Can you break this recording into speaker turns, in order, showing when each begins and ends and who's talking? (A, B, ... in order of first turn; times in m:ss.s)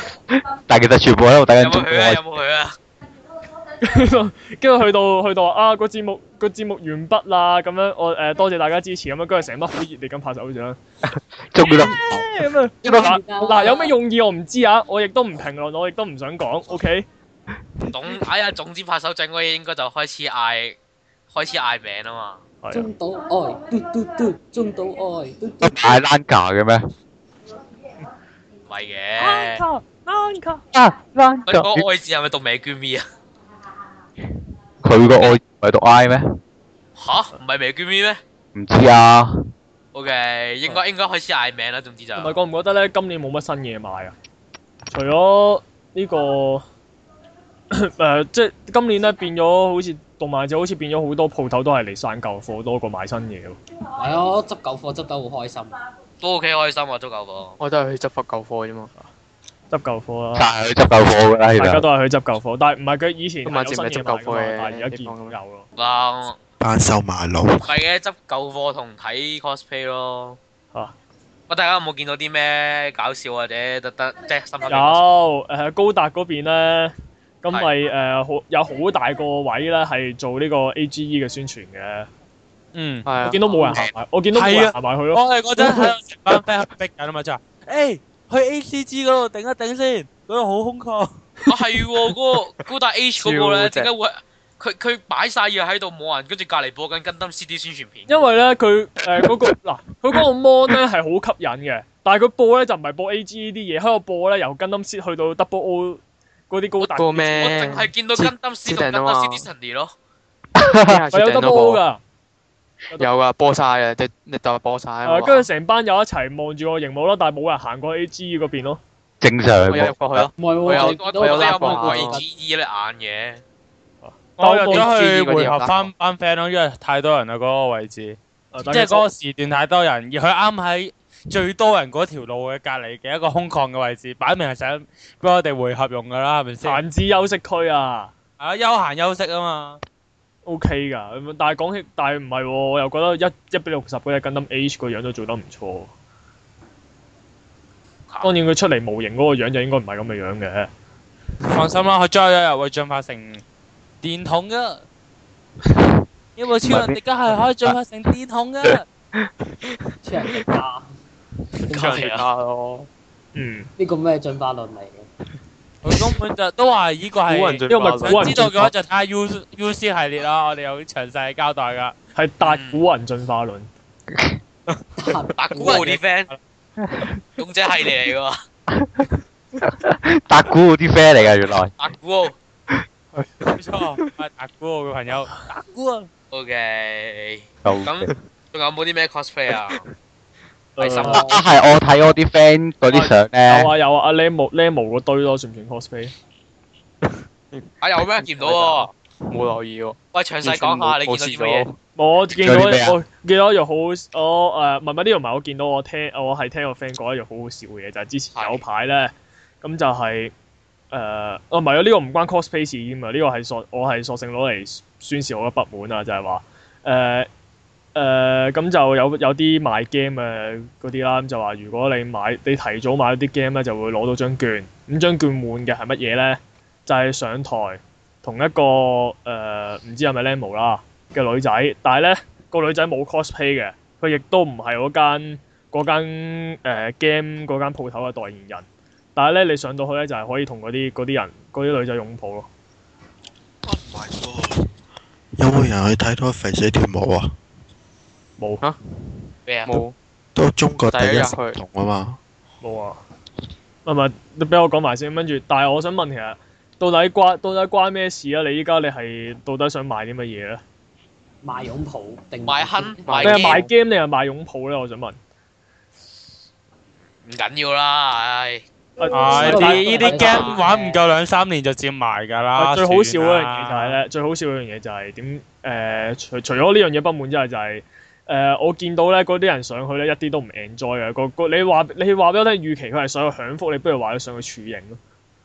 0:00.7-0:02.2 A
0:01.6-0:02.8 B
0:03.8-0:10.8 C
0:11.4-0:12.2 A
0:11.6-0:17.0 C
0:12.8-0:13.9 D
0:17.8-0:20.8 B
0:21.3-0:22.4 B
0:22.6-0:22.9 C
0:22.7-0:26.0 D
0:25.6-0:26.8 A
0:28.7-0:29.6 B
0:29.2-0:30.6 C
0:30.7-0:31.8 A
0:31.5-0:33.0 B
0:34.8-0:36.2 A
0:37.0-0:38.2 B
0:38.5-0:39.3 A
0:39.9-0:42.4 B
0:42.2-0:44.1 C
0:44.9-0:46.6 C
0:47.7-0:53.6 C
0:54.0-0:55.8 D
0:56.2-0:57.6 B
0:57.6-0:58.9 E
0:59.7-1:00.5 C
1:00.3-1:01.8 A
1:01.6-1:05.6 C
1:03.4-1:05.4 E
1:05.8-1:06.4 B
1:06.6-1:07.7 F
1:07.6-1:10.4 B
1:11.5-1:15.0 B
1:14.7-1:22.1 C
1:22.7-1:23.1 G
1:23.0-1:23.8 E
1:23.2-1:25.9 C
1:24.3-1:31.2 G
1:31.5-1:38.2 B
1:33.2-1:33.9 E
1:38.1-1:47.2 C
1:46.8-1:49.9 B
1:46.9-1:49.5 E
1:50.6-1:51.0 A
1:50.8-1:51.8 E
1:51.1-1:52.0 C
1:53.0-1:55.5 E
1:55.0-1:58.8 C
1:59.2-2:00.3 A
1:59.7-2:02.2 E
2:00.4-2:02.2 D
2:00.6-2:03.4 B
2:04.0-2:04.9 C
2:04.4-2:16.8 G
2:04.7-2:05.9 E
2:08.5-2:09.1 C
2:16.6-2:18.1 C
2:18.4-2:19.8 G
2:20.4-2:25.9 C
2:28.2-2:30.7 C
2:31.4-2:33.4 G
2:34.0-2:34.8 G
2:36.4-2:38.8 G
2:36.6-2:37.0 A
2:39.2-2:39.8 E
2:40.0-2:40.9 D
2:41.7-2:42.9 E
2:41.7-2:42.2 D
2:41.7-2:42.2 B
2:43.3-2:43.7 C
2:43.8-2:45.1 D
2:45.8-2:51.9 G
2:47.2-2:48.6 E
2:47.7-2:48.7 C
2:52.1-2:53.7 C
2:52.4-2:52.8 B
2:55.0-2:55.9 D
2:55.4-2:56.3 B
2:55.6-2:56.4 G
2:57.4-2:58.4 B
2:58.8-2:59.0 A
2:59.6-3:01.7 A
3:01.8-3:02.4 B
3:03.1-3:04.1 E
3:03.5-3:06.1 G
3:06.3-3:09.8 B
3:07.6-3:08.1 A
3:10.8-3:11.2 C
3:10.8-3:11.4 B
3:11.0-3:11.4 D
3:11.1-3:13.7 A
3:12.9-3:16.1 C
3:17.0-3:21.8 E
3:17.8-3:18.9 B
3:20.1-3:21.6 B
3:22.0-3:30.3 C
3:22.4-3:23.0 A
3:28.3-3:28.6 B
3:30.9-3:37.3 C
3:37.9-4:02.5 C
4:03.6-4:04.7 F
4:05.4-4:07.3 F
4:09.5-4:09.8 B
4:09.6-4:09.9 E
4:10.3-4:12.2 F
4:10.9-4:11.6 E
4:12.6-4:13.0 C
4:13.8-4:20.6 C
4:21.4-4:23.1 D
4:22.4-4:23.6 B
4:23.1-4:23.7 E
4:23.2-4:25.2 C
4:27.2-4:28.6 B
4:29.0-4:30.4 C
4:29.0-4:31.0 D
4:29.1-4:34.0 G
4:30.1-4:30.5 B
4:32.6-4:45.0 C